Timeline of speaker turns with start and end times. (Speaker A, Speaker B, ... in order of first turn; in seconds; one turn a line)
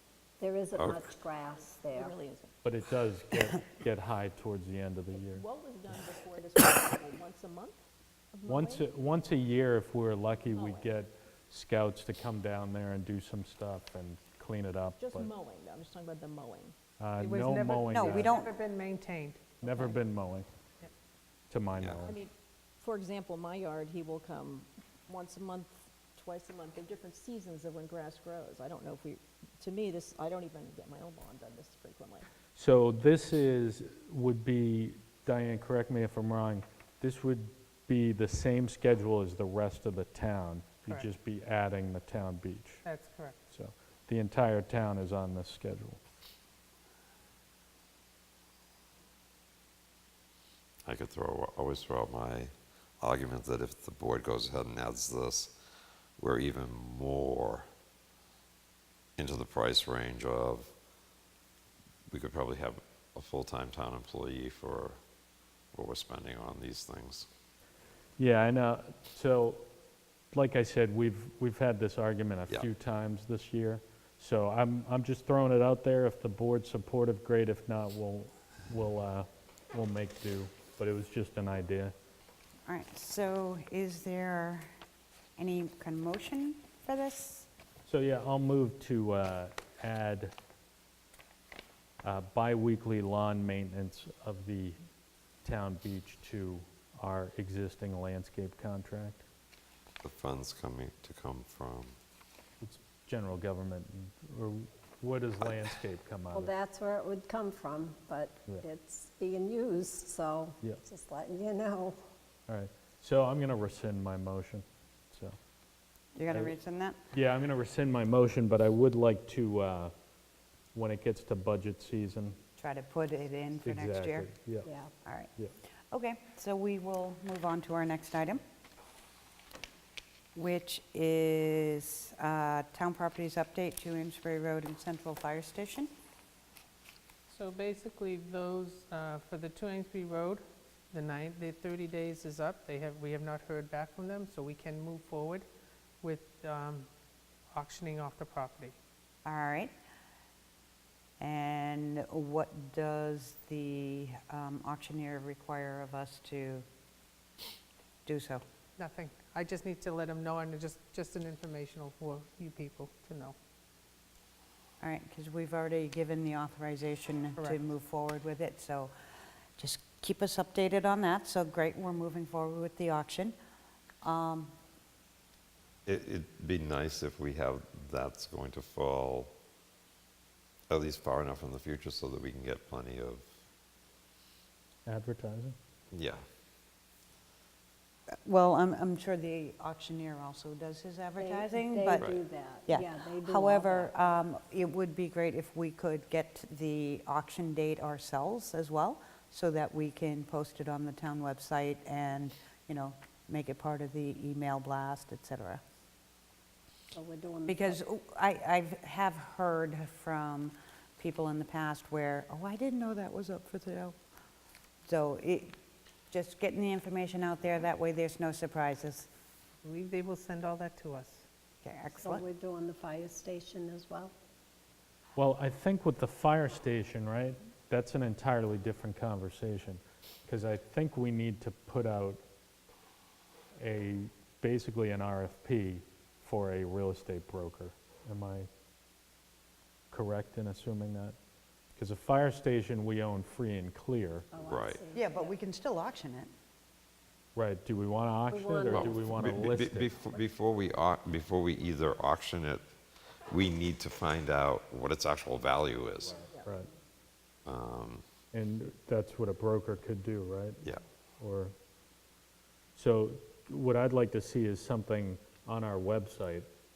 Speaker A: 0.4-2.1
Speaker B: 0.8-1.1
Speaker C: 1.7-2.5
Speaker D: 2.6-5.4
Speaker C: 5.1-7.8
Speaker C: 8.3-8.9
Speaker D: 8.4-15.3
Speaker C: 10.5-10.9
Speaker C: 15.0-16.7
Speaker D: 17.0-18.3
Speaker E: 17.2-19.5
Speaker F: 17.9-18.5
Speaker D: 19.6-20.5
Speaker C: 19.7-19.9
Speaker D: 21.5-22.2
Speaker B: 21.8-22.1
Speaker C: 22.0-32.3
Speaker D: 32.5-42.8
Speaker E: 42.8-43.4
Speaker D: 43.5-46.0
Speaker B: 50.8-55.5
Speaker B: 56.2-57.6
Speaker B: 59.2-60.7
Speaker B: 62.1-65.0
Speaker B: 65.7-67.3
Speaker D: 68.2-69.6
Speaker D: 70.3-81.9
Speaker F: 82.7-84.7
Speaker F: 85.4-87.5
Speaker D: 87.8-90.3
Speaker D: 92.0-94.8
Speaker D: 95.4-99.2
Speaker B: 100.0-101.9
Speaker D: 102.6-106.5
Speaker A: 106.3-112.0
Speaker D: 112.5-115.4
Speaker F: 116.2-117.0
Speaker D: 117.1-119.9
Speaker D: 120.7-122.4
Speaker F: 122.6-124.3
Speaker D: 123.6-124.7
Speaker A: 124.6-124.9
Speaker F: 125.0-125.3
Speaker F: 125.9-128.4
Speaker F: 130.3-135.9
Speaker E: 137.3-145.4
Speaker E: 146.0-146.9
Speaker E: 147.5-148.7
Speaker F: 149.2-149.7
Speaker F: 151.2-156.6
Speaker F: 158.1-158.4
Speaker E: 158.8-163.3
Speaker F: 164.8-168.9
Speaker F: 169.6-173.3
Speaker F: 174.0-174.5
Speaker B: 175.8-179.3
Speaker B: 180.7-183.3
Speaker D: 184.8-185.6
Speaker B: 185.9-186.2
Speaker F: 188.2-192.1
Speaker A: 191.2-194.2
Speaker F: 192.7-205.6
Speaker A: 206.9-207.8
Speaker F: 207.4-213.9
Speaker F: 214.9-215.6
Speaker F: 216.1-219.1
Speaker E: 219.6-221.2
Speaker F: 221.6-222.2
Speaker A: 222.0-224.1
Speaker D: 225.2-232.2
Speaker D: 233.6-238.5
Speaker D: 239.9-241.2
Speaker D: 241.7-244.3
Speaker A: 244.3-245.4
Speaker B: 244.4-244.8
Speaker F: 244.9-246.3
Speaker D: 247.3-249.9
Speaker A: 248.3-249.1
Speaker B: 248.7-252.6
Speaker B: 253.3-256.2
Speaker C: 256.2-256.4
Speaker D: 256.4-256.7
Speaker B: 257.4-258.0
Speaker D: 258.3-260.6
Speaker D: 261.2-261.5
Speaker D: 262.7-266.5